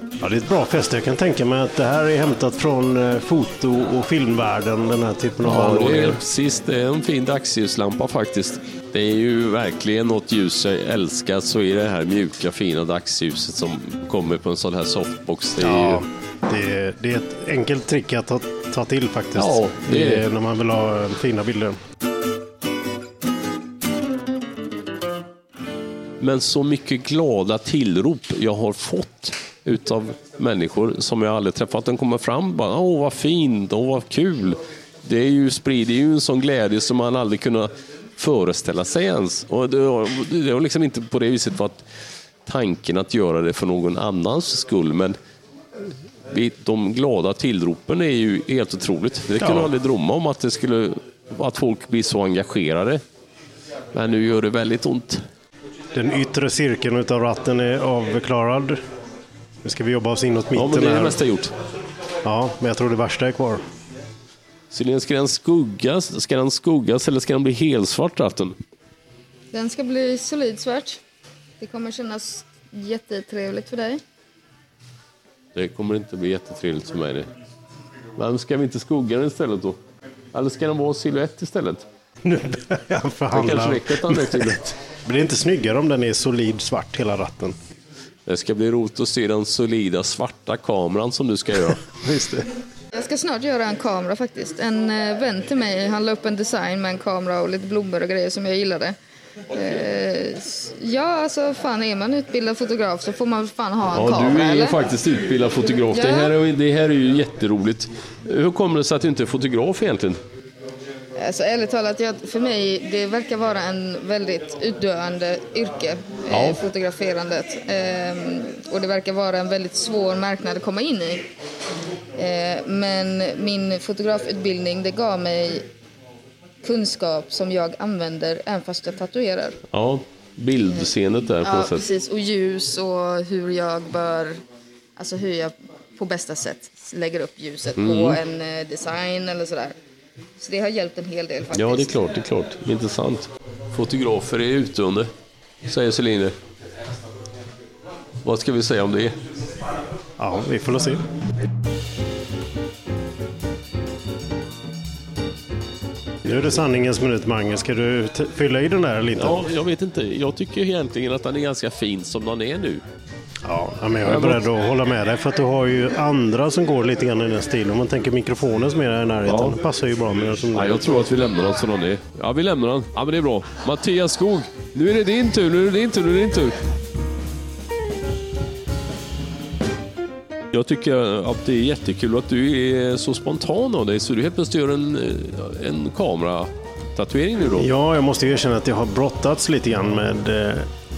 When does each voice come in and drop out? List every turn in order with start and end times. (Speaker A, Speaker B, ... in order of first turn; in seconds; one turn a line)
Speaker A: 0.2-6.2
Speaker B: 5.4-16.0
Speaker A: 15.6-21.8
Speaker B: 19.4-20.2
Speaker B: 26.2-41.9
Speaker B: 42.4-45.1
Speaker B: 46.3-53.0
Speaker A: 49.4-49.7
Speaker B: 53.9-55.2
Speaker A: 55.9-58.8
Speaker A: 59.6-61.2
Speaker B: 60.5-61.5
Speaker A: 62.2-63.6
Speaker B: 64.7-68.5
Speaker C: 69.5-71.0
Speaker C: 71.6-74.0
Speaker B: 75.5-77.3
Speaker B: 78.2-79.8
Speaker B: 80.3-81.8
Speaker A: 82.2-87.5
Speaker B: 83.3-84.7
Speaker B: 88.2-91.8
Speaker A: 91.9-92.5
Speaker C: 92.9-99.0
Speaker C: 99.5-104.8
Speaker B: 103.9-110.2
Speaker C: 105.9-106.3
Speaker C: 111.2-121.3
Speaker B: 116.3-116.6
Speaker C: 122.1-125.7
Speaker C: 126.6-129.6
Speaker B: 129.7-131.8
Speaker C: 131.4-134.4
Speaker C: 134.9-139.8
Speaker B: 137.8-138.2
Speaker C: 140.4-142.0
Speaker B: 141.5-145.1
Speaker B: 145.6-146.3
Speaker B: 148.2-149.2
Speaker A: 150.2-151.0
Speaker A: 156.2-159.4
Speaker B: 159.2-162.8
Speaker A: 163.4-171.1
Speaker B: 164.0-164.4
Speaker B: 169.2-169.6
Speaker B: 170.5-176.6
Speaker B: 180.5-187.7
Speaker A: 187.6-190.7